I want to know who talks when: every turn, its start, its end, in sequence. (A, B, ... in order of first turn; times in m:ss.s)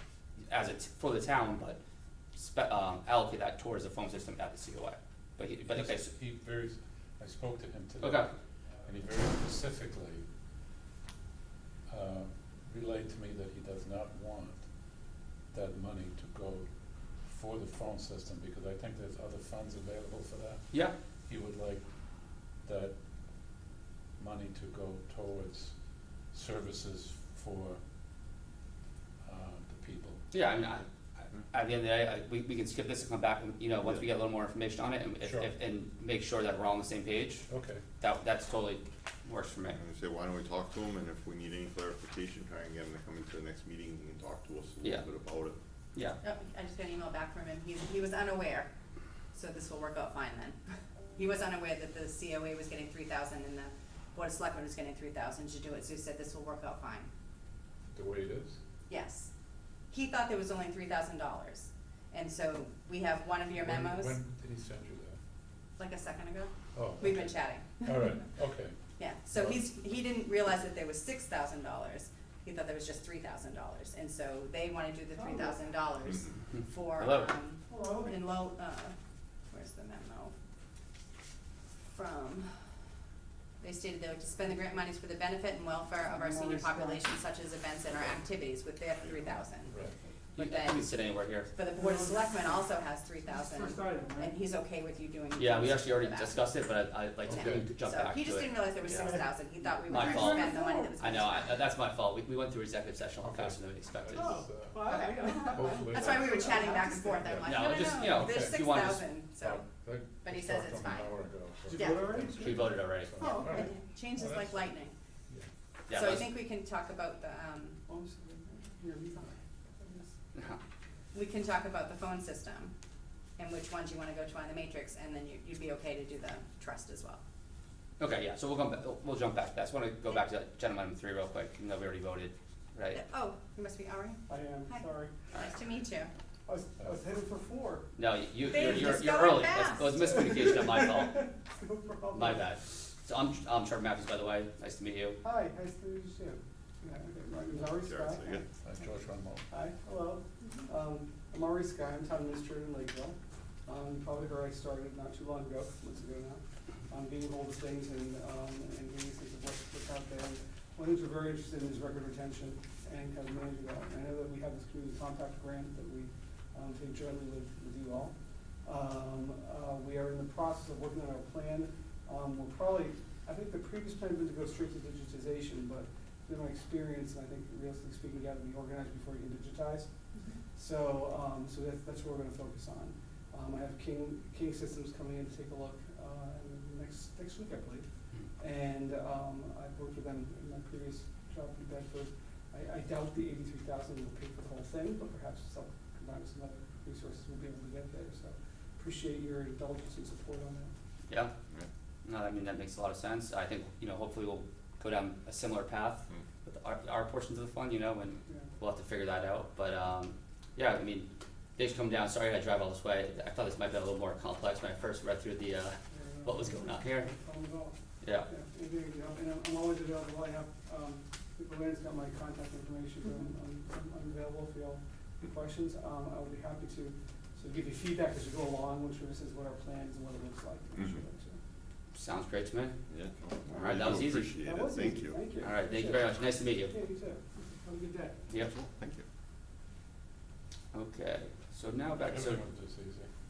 0:00.5-0:01.8 A
0:02.3-0:06.1 A
0:05.7-0:10.3 B
0:08.0-0:08.3 A
0:11.9-0:23.6 B
0:24.2-0:27.8 B
0:29.2-0:30.2 B
0:30.3-0:37.5 A
0:35.2-0:35.5 B
0:37.5-0:37.8 B
0:38.0-0:39.8 A
0:39.7-0:45.6 C
0:46.2-0:48.7 D
0:49.3-0:50.6 D
0:51.2-0:57.1 D
0:57.9-0:58.6 B
0:58.9-0:59.3 D
0:59.9-1:04.2 D
1:03.6-1:05.2 B
1:05.8-1:08.1 D
1:06.7-1:08.8 B
1:09.0-1:18.9 D
1:09.3-1:09.6 B
1:15.2-1:15.6 E
1:17.0-1:17.3 A
1:17.7-1:18.1 E
1:19.5-1:20.3 D
1:21.9-1:22.8 D
1:23.6-1:29.7 D
1:26.0-1:27.0 E
1:29.0-1:29.4 C
1:29.7-1:29.9 B
1:30.4-1:31.5 A
1:30.4-1:30.9 D
1:31.5-1:36.4 D
1:31.8-1:32.6 E
1:33.3-1:34.3 E
1:35.4-1:39.3 A
1:37.2-1:37.7 B
1:37.3-1:41.6 D
1:38.8-1:40.9 E
1:39.9-1:44.4 A
1:43.2-1:54.6 B
1:44.1-1:47.2 E
1:44.8-1:49.6 D
1:47.4-1:49.0 A
1:50.2-1:51.1 D
1:51.7-1:52.2 D
1:51.7-1:52.6 E
1:52.3-1:53.1 A
1:53.2-1:53.7 E
1:53.2-1:54.9 D
1:55.9-1:56.3 A
1:55.9-1:57.8 D
1:57.9-2:00.1 E
2:01.1-2:02.7 D
2:03.4-2:07.2 D
2:08.0-2:13.0 A
2:12.9-2:16.1 D
2:14.3-2:15.2 E
2:16.5-2:17.8 E
2:18.0-2:21.2 A
2:18.5-2:19.9 D
2:20.0-2:22.4 E
2:22.1-2:25.2 A
2:25.2-2:28.4 E
2:27.5-2:28.5 C
2:28.6-2:29.4 B
2:29.5-2:59.9 E
3:00.5-3:07.8 E
3:08.4-3:20.7 E
3:21.1-3:21.3 A
3:22.0-3:37.1 A
3:35.9-3:51.4 E
3:38.0-3:38.3 A
3:50.8-3:51.0 C
3:51.9-3:52.8 A
3:52.9-3:55.2 C
3:53.5-3:58.2 E
3:53.5-3:54.3 A
3:55.4-3:56.7 A
3:58.3-3:59.0 C
4:00.7-4:02.4 A
4:02.0-4:03.1 B